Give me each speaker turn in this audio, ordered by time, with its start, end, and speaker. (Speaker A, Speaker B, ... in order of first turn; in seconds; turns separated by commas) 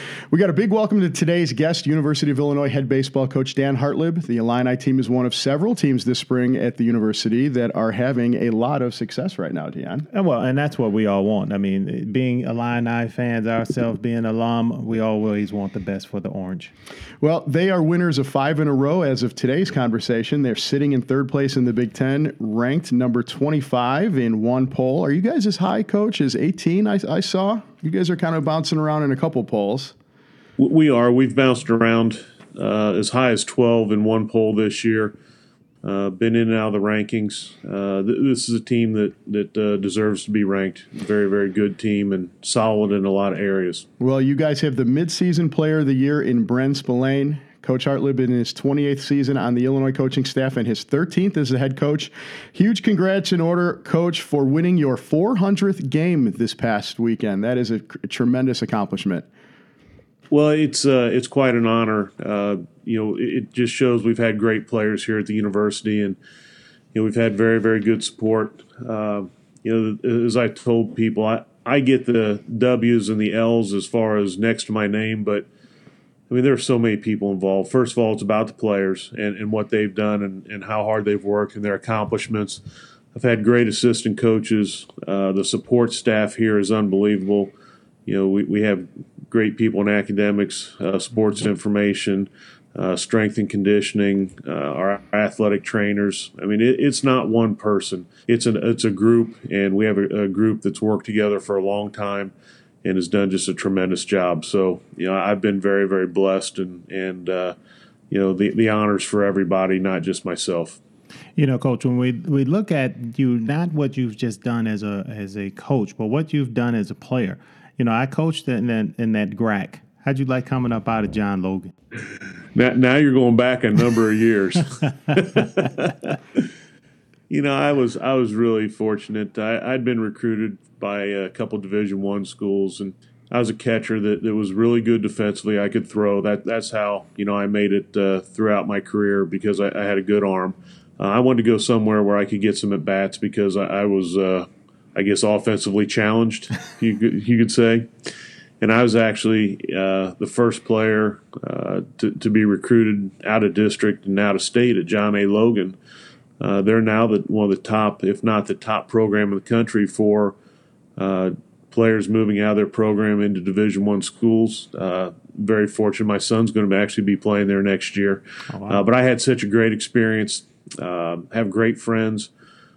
Speaker A: 0.3-10.1, Speaker B: 10.1-16.7, Speaker A: 17.2-29.9, Speaker C: 30.6-35.1, Speaker C: 35.8-43.8, Speaker A: 44.0-59.3, Speaker C: 60.3-66.2, Speaker C: 66.9-75.5, Speaker C: 76.3-82.6, Speaker C: 83.1-87.5, Speaker C: 88.0-102.3, Speaker C: 102.8-107.5, Speaker C: 108.1-110.8, Speaker B: 111.4-121.7, Speaker C: 122.5-126.4, Speaker C: 127.3-147.9, Speaker C: 148.6-155.8, Speaker C: 156.4-160.3, Speaker C: 161.0-172.3, Speaker B: 168.5-168.8